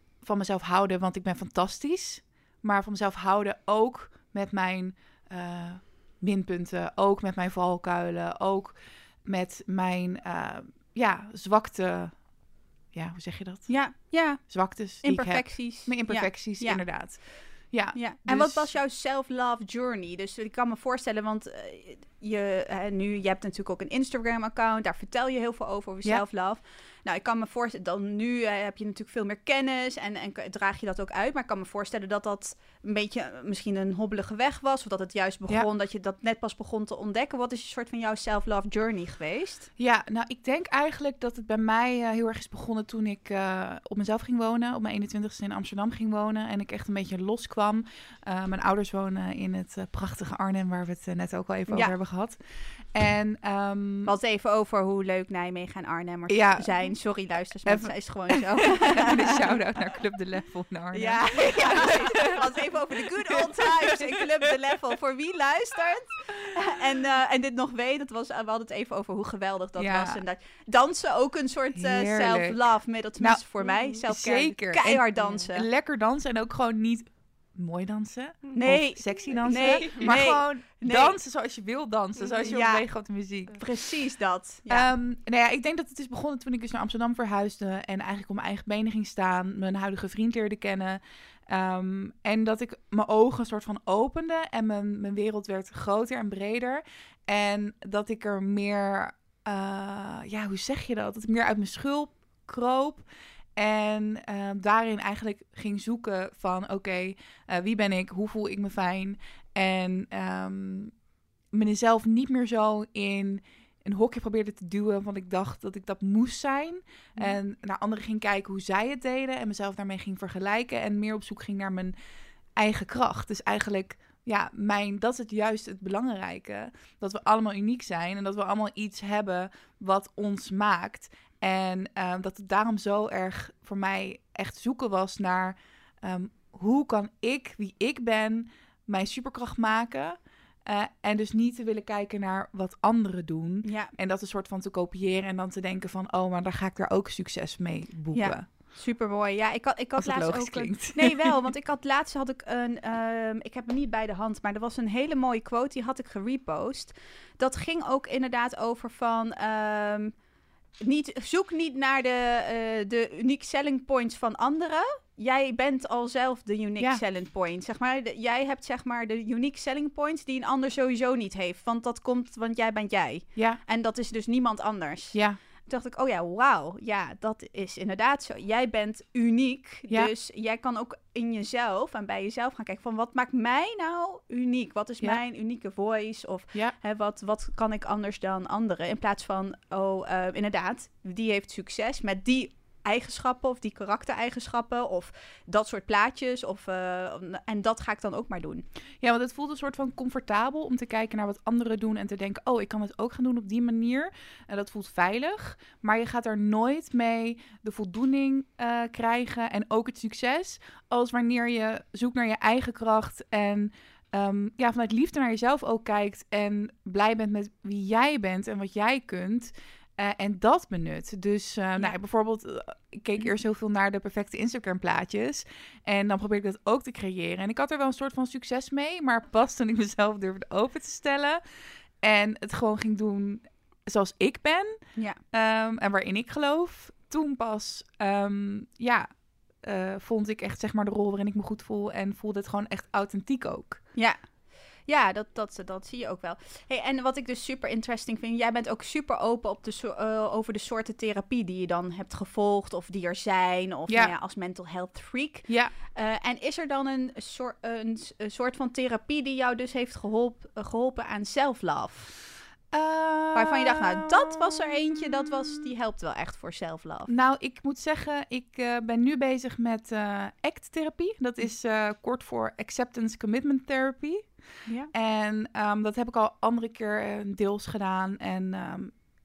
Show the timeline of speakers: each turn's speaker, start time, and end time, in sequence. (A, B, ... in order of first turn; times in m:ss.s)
0:00.2-0:18.7 A
0:13.7-0:16.9 B
0:17.9-0:39.7 B
0:39.8-0:54.1 A
0:51.7-0:51.9 B
0:54.0-0:59.3 B
0:56.3-0:56.9 A
0:57.6-1:02.0 A
1:00.9-1:15.6 B
1:09.8-1:10.2 A
1:11.7-1:23.7 A
1:18.6-1:21.2 B
1:22.3-1:24.9 B
1:24.7-1:43.0 A
1:43.6-1:51.0 A
1:51.5-2:01.9 A
2:02.6-2:28.5 A
2:23.6-2:23.9 B
2:28.1-2:40.1 B
2:30.0-2:31.4 A
2:40.8-3:18.6 B
2:55.1-2:55.4 A
3:19.0-3:51.4 A
3:52.0-4:03.9 A
4:03.9-4:22.2 B
4:13.9-4:14.1 A
4:15.5-4:15.7 A
4:22.7-4:25.4 A
4:23.3-4:27.1 B
4:27.1-4:39.0 A